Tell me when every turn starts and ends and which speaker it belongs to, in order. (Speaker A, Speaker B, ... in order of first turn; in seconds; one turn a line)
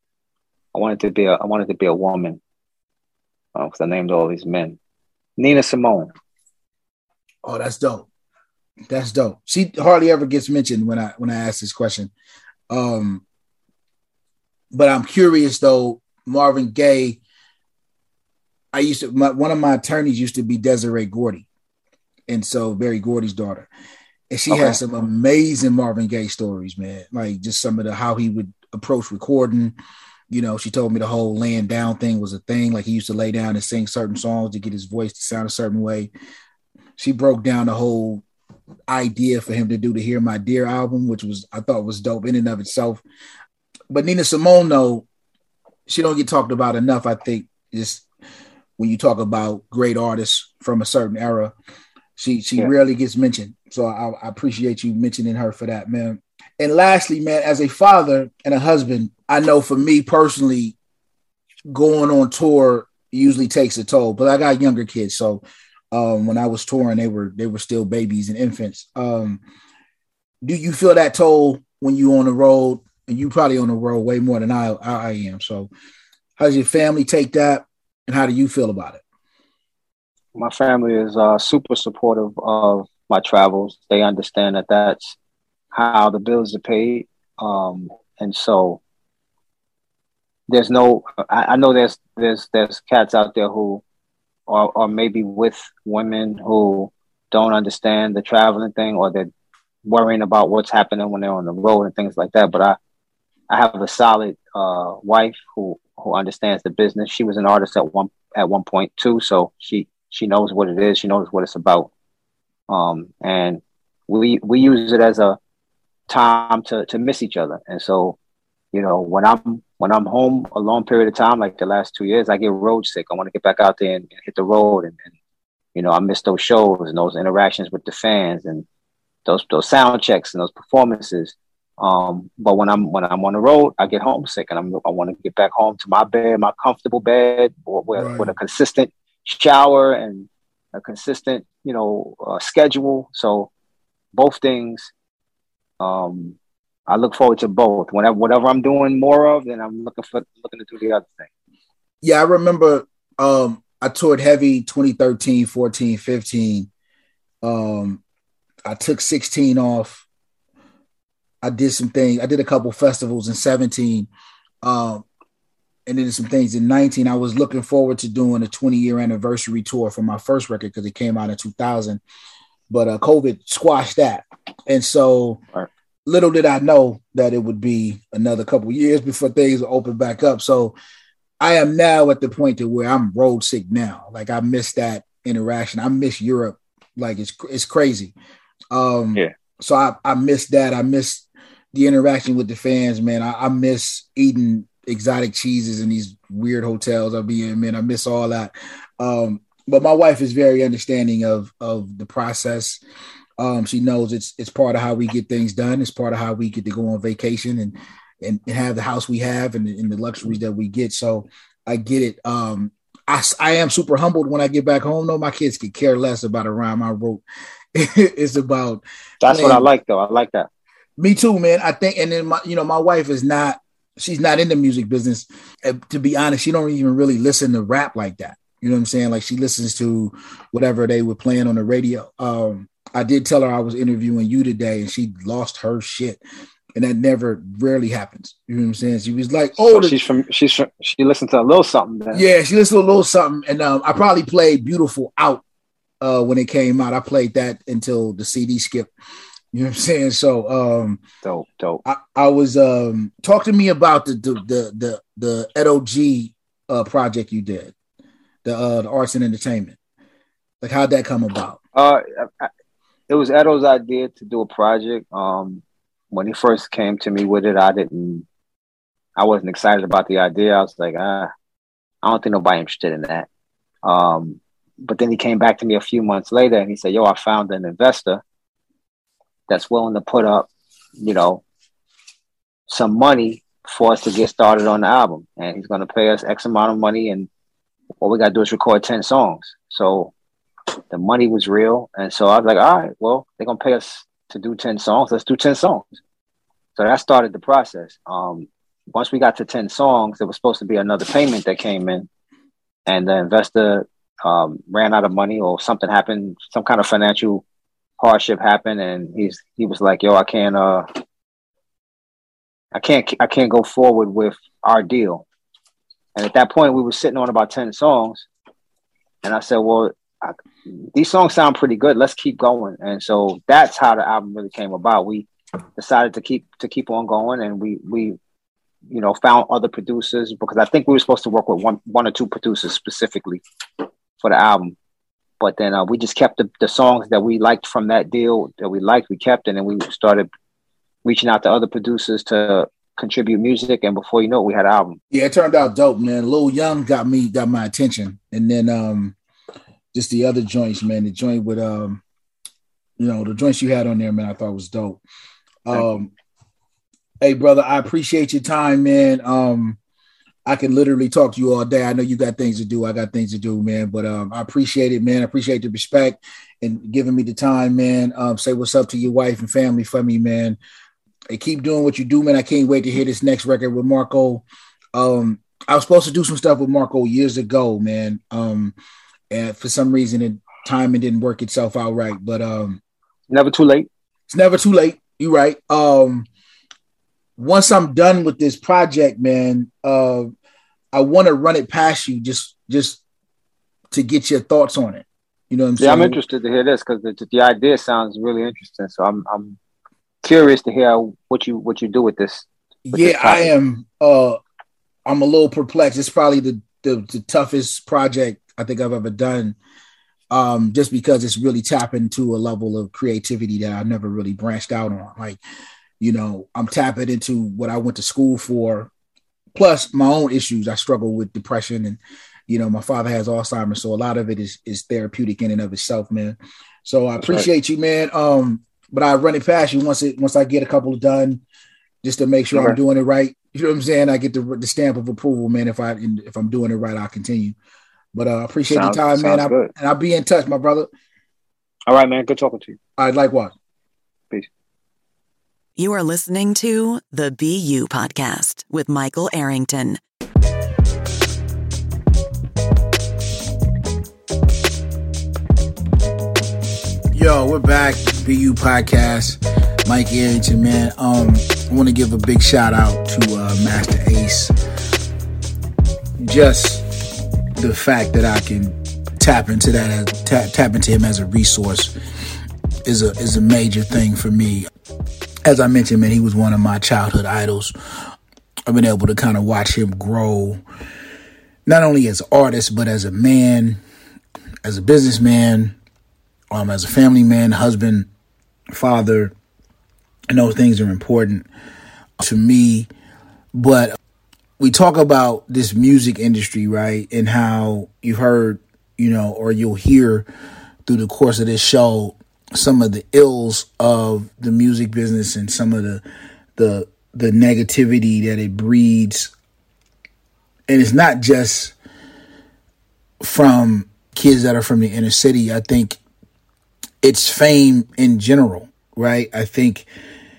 Speaker A: 0.7-2.4
Speaker A: 3.5-4.8
Speaker A: 5.4-6.1
Speaker B: 7.4-8.1
Speaker B: 8.9-12.1
Speaker B: 12.7-13.2
Speaker B: 14.7-17.2
Speaker B: 18.7-21.4
Speaker B: 22.3-23.7
Speaker B: 24.3-29.7
Speaker A: 24.5-24.8
Speaker B: 30.3-36.1
Speaker B: 37.0-38.2
Speaker B: 38.9-43.0
Speaker B: 43.9-45.0
Speaker B: 45.9-48.0
Speaker B: 48.8-51.5
Speaker B: 52.2-60.7
Speaker B: 61.7-69.4
Speaker B: 70.4-75.7
Speaker B: 76.4-79.0
Speaker A: 80.3-85.2
Speaker A: 85.7-88.8
Speaker A: 90.5-93.8
Speaker A: 94.5-99.3
Speaker A: 99.8-102.8
Speaker A: 103.5-111.9
Speaker A: 112.7-115.4
Speaker A: 116.1-118.2
Speaker A: 118.7-125.0
Speaker A: 125.7-128.7
Speaker A: 129.2-143.5
Speaker B: 137.9-138.3
Speaker A: 144.1-144.9
Speaker A: 145.8-146.4
Speaker A: 146.9-151.3
Speaker B: 152.0-156.7
Speaker B: 157.4-158.0
Speaker B: 158.7-160.0
Speaker B: 161.4-164.1
Speaker B: 164.6-165.0
Speaker B: 165.8-172.0
Speaker B: 172.7-175.4
Speaker B: 176.1-180.7
Speaker B: 181.4-188.1
Speaker B: 188.7-202.8
Speaker B: 203.4-217.2
Speaker B: 217.7-219.7
Speaker A: 219.2-220.5
Speaker B: 221.0-236.2
Speaker B: 236.8-240.0
Speaker A: 239.6-242.2
Speaker B: 242.1-245.4
Speaker B: 246.0-248.9
Speaker B: 249.5-251.0
Speaker A: 251.2-251.8
Speaker B: 251.8-257.7
Speaker B: 258.4-259.8
Speaker B: 260.6-261.6
Speaker A: 261.7-262.5
Speaker A: 263.1-268.2
Speaker A: 269.1-271.3
Speaker A: 272.0-273.3
Speaker A: 273.8-278.2
Speaker A: 279.5-281.4
Speaker A: 282.7-287.3
Speaker A: 288.0-290.1
Speaker A: 290.9-296.0
Speaker A: 296.8-302.1
Speaker A: 302.9-307.4
Speaker A: 308.0-310.9
Speaker A: 312.7-315.2
Speaker A: 316.1-318.3
Speaker A: 319.2-328.2
Speaker A: 328.9-333.4
Speaker A: 334.2-334.8
Speaker A: 335.4-340.3
Speaker A: 341.0-345.0
Speaker B: 345.1-349.1
Speaker B: 349.9-352.0
Speaker B: 353.0-355.0
Speaker B: 355.6-356.1
Speaker B: 357.2-359.8
Speaker B: 360.4-370.6
Speaker B: 371.3-374.4
Speaker B: 374.9-378.7
Speaker B: 379.3-382.8
Speaker A: 383.3-383.9
Speaker B: 384.3-386.3
Speaker B: 387.4-390.3
Speaker B: 390.9-393.0
Speaker B: 393.9-396.2
Speaker A: 395.8-399.6
Speaker A: 400.2-403.5
Speaker B: 402.9-404.4
Speaker B: 405.1-409.6
Speaker B: 410.3-415.4
Speaker B: 416.0-418.9
Speaker B: 419.5-431.4
Speaker A: 427.2-427.4
Speaker B: 432.0-437.6
Speaker A: 432.5-432.8
Speaker B: 438.1-440.9
Speaker A: 438.7-439.7
Speaker A: 441.9-442.8
Speaker B: 443.0-443.5
Speaker C: 445.8-450.0
Speaker B: 457.1-464.5
Speaker B: 466.2-466.8
Speaker B: 467.6-471.9
Speaker B: 472.8-474.7
Speaker B: 475.4-477.7
Speaker B: 478.7-480.6
Speaker B: 481.6-483.8
Speaker B: 484.6-485.8
Speaker B: 486.5-488.1
Speaker B: 488.7-489.3
Speaker B: 490.3-491.5
Speaker B: 492.2-492.9
Speaker B: 493.5-494.0
Speaker B: 494.6-500.3
Speaker B: 500.9-506.0
Speaker B: 506.6-509.3
Speaker B: 510.7-511.7
Speaker B: 513.2-516.0
Speaker B: 517.0-519.9